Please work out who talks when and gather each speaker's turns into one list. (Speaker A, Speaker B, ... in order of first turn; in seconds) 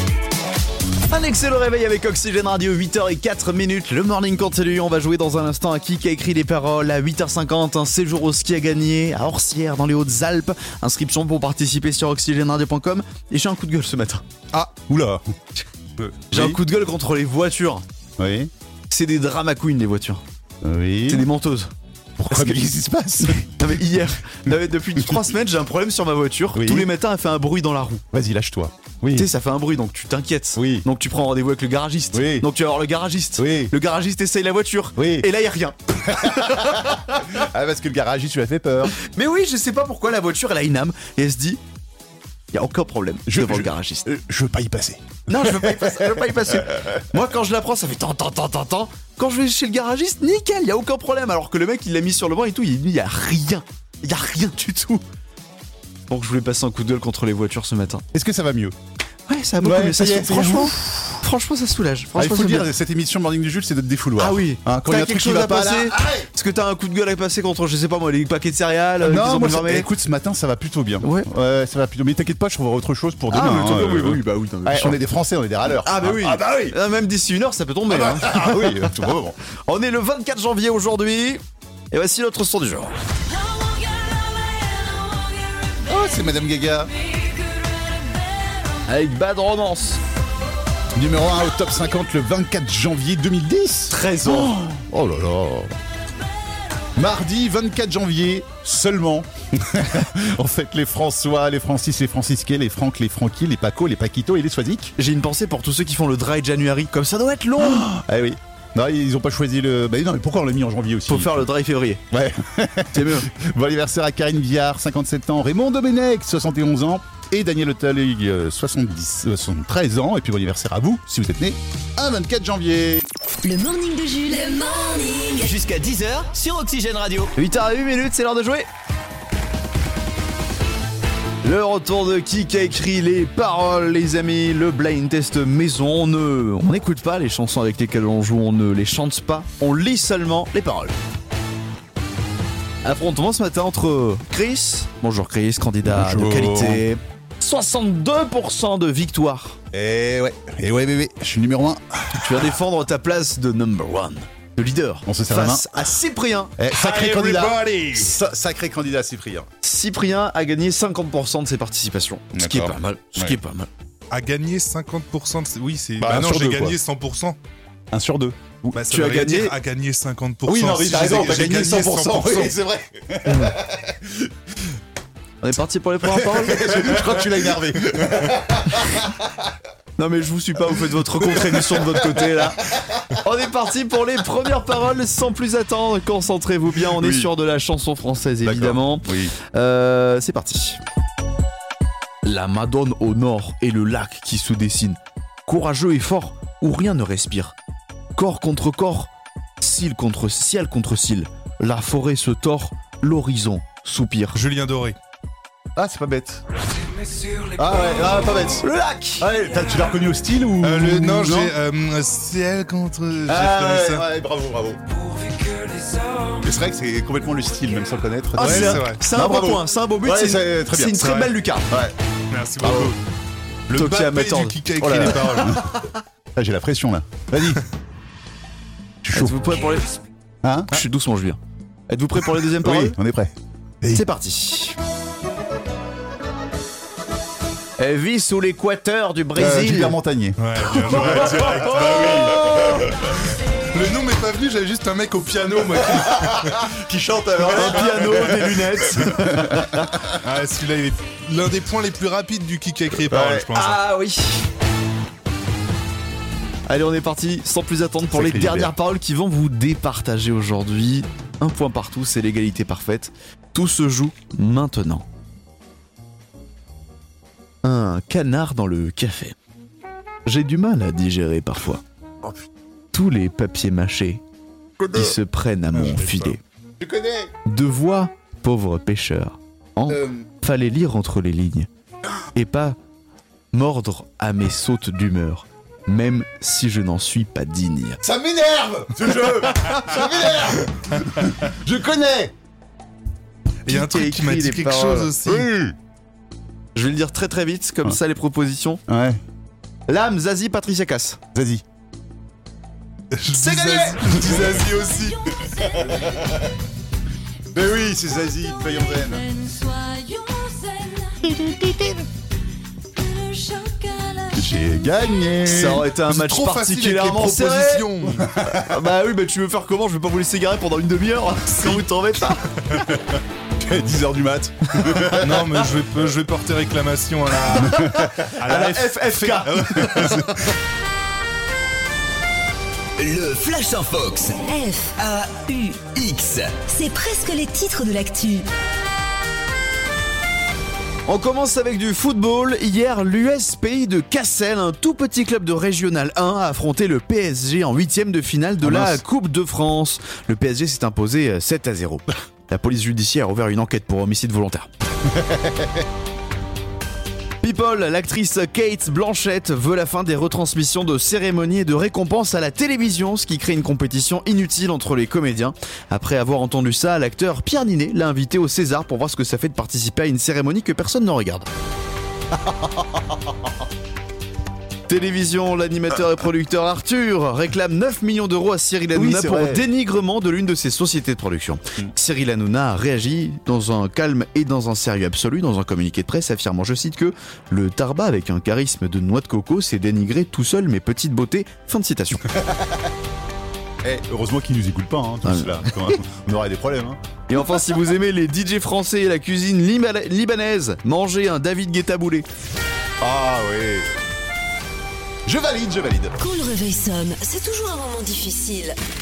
Speaker A: 1.1-14.2, 16.3-17.9, 18.9-20.2, 21.1-22.6, 23.3-28.0, 29.1-37.3, 39.0-41.6, 42.5-44.1, 45.3-55.0, 56.1-58.0, 59.3-62.6, 64.2-69.9, 71.0-71.3, 73.3-75.0, 75.7-79.1, 79.7-81.4, 81.9-82.9, 88.9-90.0, 93.9-94.5, 105.0-107.9, 111.1-112.0, 112.9-113.3, 127.4-128.7, 131.4-141.0, 142.8-149.6, 152.2-156.6, 159.6-163.7, 168.9-169.6, 173.2-173.6, 175.4-177.3, 180.0-182.6, 183.2-190.8, 192.2-197.6, 198.2-204.4, 208.6-209.3, 218.4-221.7, 223.7-225.7, 229.1-230.0, 230.7-233.0, 233.9-234.8, 237.8-240.0, 240.6-242.6, 247.4-249.9, 253.5-254.4, 256.7-265.0, 267.6-269.4, 270.3-271.8, 272.9-274.2, 274.9-276.4, 277.4-281.7, 282.3-282.8, 283.5-288.0, 293.7-295.2, 296.8-298.8, 299.9-301.2, 303.4-305.1, 315.4-322.4, 327.7-330.3, 341.1-354.7, 357.4-371.5, 374.9-392.3, 395.2-395.9, 397.3-402.3
Speaker B: 14.5-15.3, 16.0-16.6, 18.2-18.5, 20.6-21.3, 22.2-23.8, 26.5-26.9, 28.1-29.3, 30.6-30.9, 32.1-32.5, 33.4-33.7, 35.0-35.3, 36.1-39.0, 43.3-46.2, 58.1-58.8, 59.6-61.2, 62.2-66.3, 69.0-76.8, 77.9-79.4, 85.8-86.9, 91.0-95.8, 97.0-105.0, 107.6-111.5, 112.1-123.1, 145.8-146.8, 149.7-152.5, 155.1-155.9, 156.6-159.5, 162.3-163.4, 166.0-166.8, 167.9-168.9, 170.5-174.3, 176.0-179.3, 181.2-182.4, 186.9-187.3, 188.4-189.3, 205.8-206.4, 207.6-208.6, 209.2-211.6, 213.3-214.8, 216.3-221.9, 222.6-222.9, 225.0-225.6, 226.3-227.6, 229.0-229.5, 230.4-230.8, 232.3-234.1, 239.3-242.8, 245.8-250.2, 253.1-253.5, 258.1-258.7, 274.8-275.1, 275.7-277.3, 279.9-280.2, 288.0-292.3, 295.2-295.8, 298.9-299.2, 301.4-301.6, 305.8-306.4, 307.5-309.2, 311.3-312.0, 314.4-315.9, 318.3-318.8, 323.6-325.7, 348.6-349.0, 355.1-355.8, 372.3-373.3, 378.9-379.7, 392.4-392.8, 393.8-397.6, 403.0-403.9, 405.3-406.2
Speaker C: 123.4-125.5, 304.7-306.2, 308.3-311.9, 312.9-314.7, 334.4-335.0, 336.7-338.5, 406.2-408.8
Speaker D: 125.4-127.3, 333.0-334.4, 335.0-336.6
Speaker E: 156.7-158.1, 164.1-167.4, 168.8-172.6, 204.3-205.0, 210.6-214.0, 215.4-216.0, 218.4-219.0, 221.0-221.3, 222.3-223.0, 223.7-225.7, 240.4-242.9, 243.7-246.7, 250.2-253.8, 293.7-295.5, 303.1-305.1, 316.0-318.3, 325.1-330.5